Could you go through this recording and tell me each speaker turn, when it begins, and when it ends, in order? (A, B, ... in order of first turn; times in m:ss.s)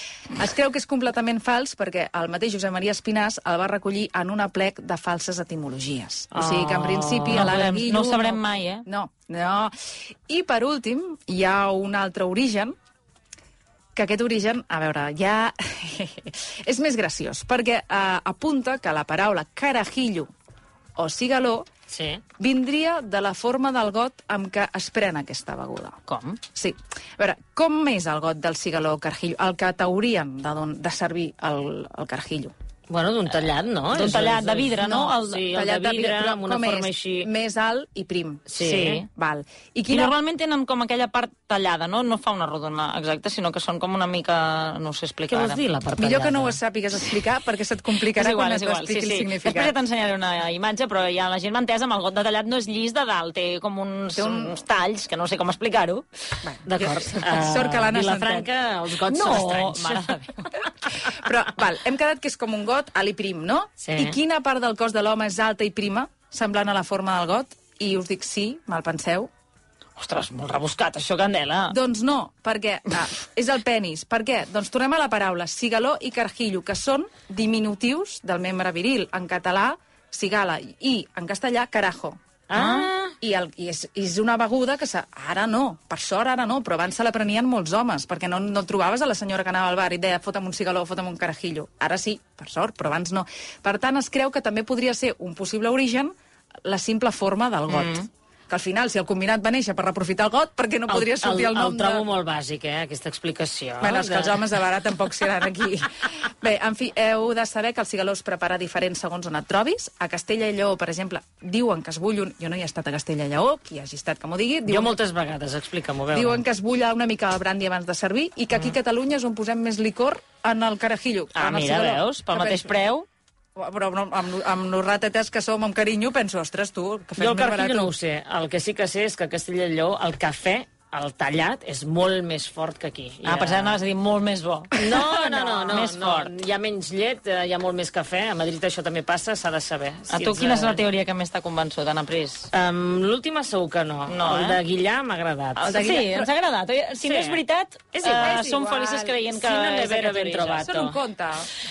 0:00.4-0:09.7 A
0:06.3-0:07.5 B
0:07.3-0:08.8 C
0:10.3-0:12.7 A
0:13.9-0:20.3 A
0:21.0-0:21.6 A
0:21.9-0:22.2 B
0:22.4-0:26.0 A
0:26.1-0:26.4 C
0:26.5-0:32.5 A
0:32.9-0:37.3 B
0:33.9-0:35.5 C
0:34.7-0:38.4 A
0:38.5-0:39.0 B
0:38.6-0:39.1 C
0:39.1-0:40.1 A
0:39.9-0:45.6 C
0:45.3-0:46.6 B
0:46.0-0:49.7 A
0:48.1-0:56.0 C
0:54.2-0:54.6 A
0:56.4-0:58.5 A
0:56.6-1:00.2 B
0:59.1-1:00.4 C
1:00.7-1:09.3 A
1:03.8-1:04.2 B
1:10.0-1:11.8 C
1:11.7-1:22.2 A
1:22.5-1:23.1 B
1:22.5-1:22.9 C
1:23.2-1:36.1 A
1:36.6-1:42.0 A
1:37.7-1:38.0 C
1:40.9-1:44.4 B
1:43.8-1:55.0 A
1:54.7-1:56.4 B
1:56.1-2:02.7 A
2:01.3-2:03.0 C
2:03.6-2:07.9 A
2:07.2-2:13.8 B
2:13.2-2:16.4 C
2:14.7-2:20.8 B
2:20.1-2:22.5 C
2:22.5-2:26.1 B
2:24.1-2:24.6 C
2:25.6-2:30.7 C
2:25.7-2:26.3 A
2:27.0-2:27.4 B
2:28.0-2:28.4 B
2:28.0-2:29.3 A
2:29.3-2:31.0 B
2:30.6-2:31.5 A